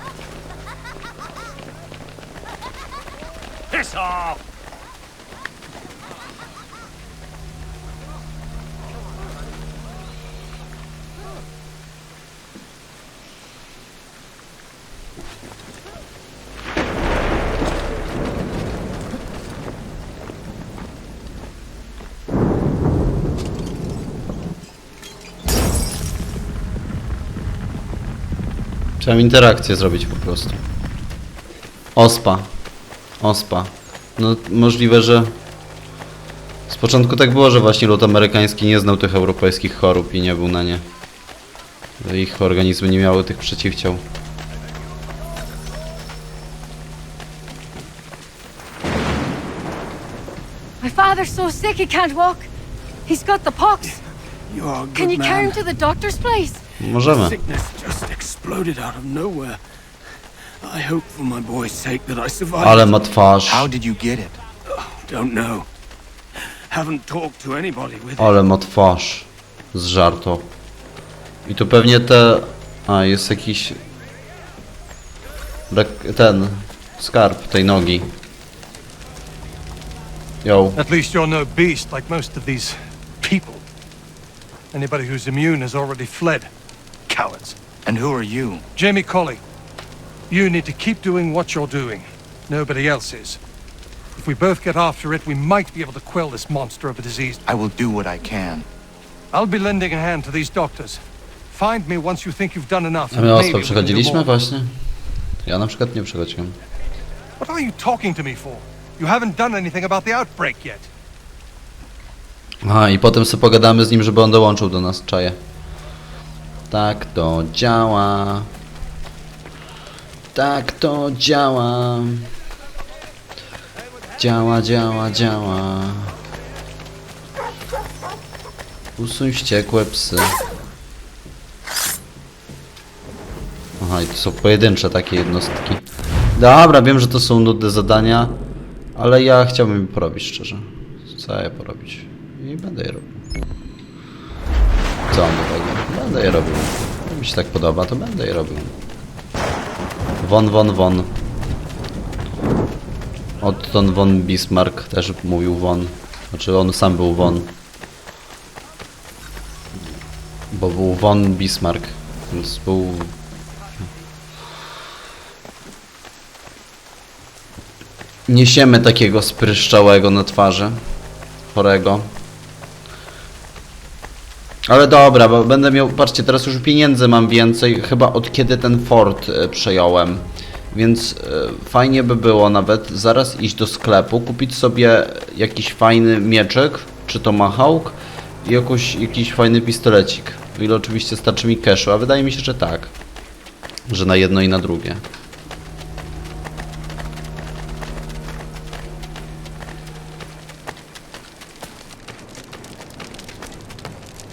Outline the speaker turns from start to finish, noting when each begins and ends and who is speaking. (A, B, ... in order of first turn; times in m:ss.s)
0:03.7-0:04.4 A
0:29.0-0:30.6 B
0:32.0-0:32.5 B
0:33.2-0:35.3 B
0:36.7-0:40.8 B
0:42.0-0:44.0 B
0:50.8-0:52.5 C
0:53.1-0:54.0 C
0:54.5-0:55.6 A
0:54.9-0:56.6 C
0:56.8-0:57.4 B
0:57.1-0:59.6 A
1:00.6-1:02.8 A
1:02.6-1:03.7 B
1:03.4-1:04.4 D
1:04.9-1:05.6 A
1:06.7-1:08.2 A
1:08.2-1:10.5 B
1:11.4-1:13.8 B
1:15.7-1:18.1 B
1:20.4-1:20.8 B
1:20.8-1:23.6 E
1:24.7-1:26.5 E
1:27.1-1:27.6 E
1:27.8-1:28.6 D
1:28.8-1:29.4 E
1:30.3-1:33.4 E
1:34.2-1:37.4 E
1:37.4-1:38.7 D
1:39.3-1:41.0 E
1:41.5-1:44.3 E
1:43.1-1:44.7 B
1:45.4-1:46.6 B
1:47.4-1:50.9 E
1:52.6-1:55.4 B
1:56.7-1:58.5 B
2:00.3-2:02.3 B
2:04.2-2:06.1 B
2:09.0-2:10.4 B
2:13.8-2:15.8 B
2:16.4-2:18.4 B
2:19.0-2:23.2 B
2:25.1-2:28.8 B
2:30.2-2:31.1 B
2:33.4-2:37.6 B
2:40.5-2:43.1 B
2:48.3-2:50.8 B
2:51.5-2:52.1 B
2:54.7-3:12.9 B
3:13.9-3:15.0 B